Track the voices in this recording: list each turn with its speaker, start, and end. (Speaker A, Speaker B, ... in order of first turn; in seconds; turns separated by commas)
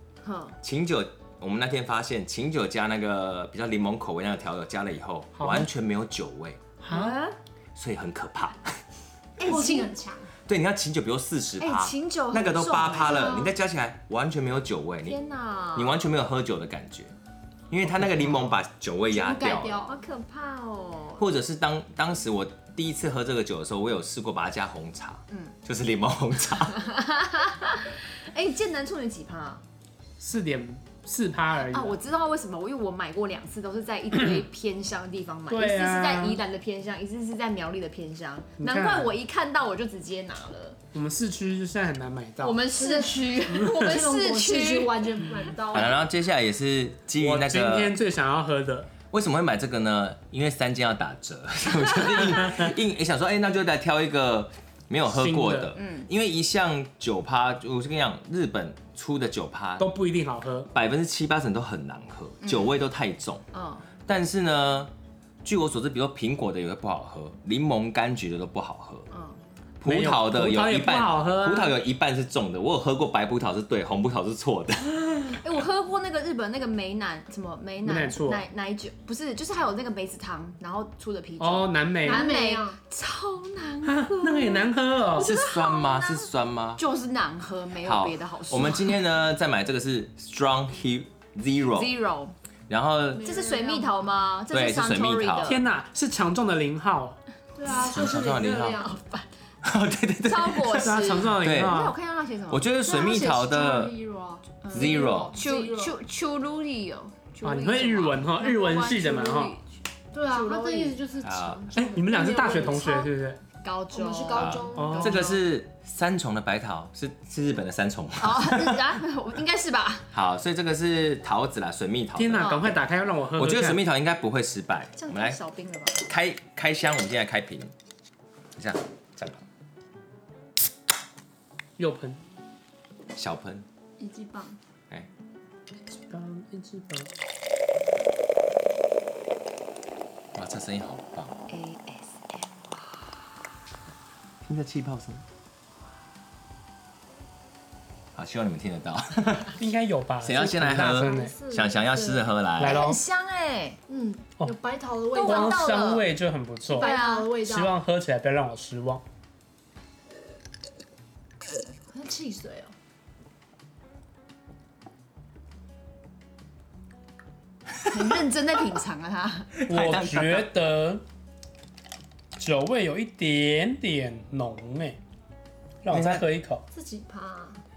Speaker A: 0.2-0.6, Speaker B: 0.6-6.6, Speaker C: 5.4-5.7, Speaker C: 6.8-7.2, Speaker A: 6.9-7.4, Speaker B: 7.8-8.8, Speaker A: 9.4-9.9, Speaker D: 9.4-10.3, Speaker B: 10.5-15.2, Speaker A: 11.6-13.5, Speaker D: 13.0-13.5, Speaker A: 15.1-16.0, Speaker B: 15.8-17.1, Speaker B: 17.7-19.8, Speaker D: 19.1-20.0, Speaker A: 19.9-21.2, Speaker B: 21.2-26.8, Speaker A: 26.7-29.6, Speaker C: 30.2-32.0, Speaker A: 31.7-40.8, Speaker C: 35.5-36.4, Speaker C: 38.6-39.1, Speaker C: 40.9-42.6, Speaker A: 42.4-45.0, Speaker D: 42.7-46.0, Speaker C: 43.5-43.9, Speaker B: 45.7-48.0, Speaker C: 47.2-48.9, Speaker B: 49.1-59.9, Speaker C: 55.1-55.8, Speaker A: 55.8-56.1, Speaker C: 59.8-60.7, Speaker B: 60.7-63.4, Speaker A: 62.4-62.8, Speaker A: 63.5-63.9, Speaker B: 64.0-64.9, Speaker B: 65.4-69.1, Speaker A: 69.1-69.4, Speaker B: 69.8-75.4, Speaker C: 69.8-71.7, Speaker A: 75.4-89.0, Speaker C: 77.8-78.4, Speaker C: 81.4-82.3, Speaker D: 82.0-82.8, Speaker C: 83.8-85.3, Speaker B: 85.2-86.8, Speaker B: 87.8-91.9, Speaker A: 91.7-92.3, Speaker B: 92.7-93.3, Speaker D: 93.1-94.0, Speaker A: 93.2-95.6, Speaker B: 94.5-95.6, Speaker C: 95.4-97.2, Speaker D: 97.6-99.1, Speaker B: 97.7-99.0, Speaker B: 99.6-101.9, Speaker A: 100.2-102.7, Speaker C: 100.7-102.0, Speaker B: 102.5-104.0, Speaker D: 102.8-106.0, Speaker A: 104.6-109.7, Speaker B: 104.7-105.4, Speaker C: 107.4-109.5, Speaker D: 110.1-113.1, Speaker A: 110.3-111.0, Speaker B: 111.2-111.7, Speaker C: 111.8-113.4, Speaker A: 113.6-114.7, Speaker D: 113.9-115.4, Speaker B: 114.3-119.0, Speaker C: 114.8-115.3, Speaker A: 118.2-120.1, Speaker B: 120.1-122.8, Speaker C: 122.2-123.8, Speaker A: 122.4-122.8, Speaker B: 123.4-125.4, Speaker A: 125.0-126.1, Speaker B: 126.1-127.7, Speaker B: 128.6-129.4, Speaker C: 131.8-132.2, Speaker B: 133.1-133.7, Speaker D: 134.0-134.6, Speaker C: 136.1-137.1, Speaker B: 140.3-141.4, Speaker A: 141.5-142.6, Speaker B: 144.4-145.2, Speaker B: 148.1-149.5, Speaker C: 149.6-151.3, Speaker B: 150.2-152.9, Speaker D: 150.8-152.2, Speaker C: 152.6-153.0, Speaker A: 152.6-153.8, Speaker D: 153.9-155.8, Speaker A: 155.1-156.1, Speaker C: 155.2-156.9, Speaker D: 156.6-157.8, Speaker A: 156.8-157.3, Speaker C: 157.4-159.0, Speaker D: 161.9-162.7, Speaker A: 167.9-169.5, Speaker B: 169.5-170.5, Speaker C: 169.7-171.0, Speaker C: 172.4-175.0, Speaker C: 175.8-176.6, Speaker B: 175.9-176.3, Speaker D: 176.7-177.6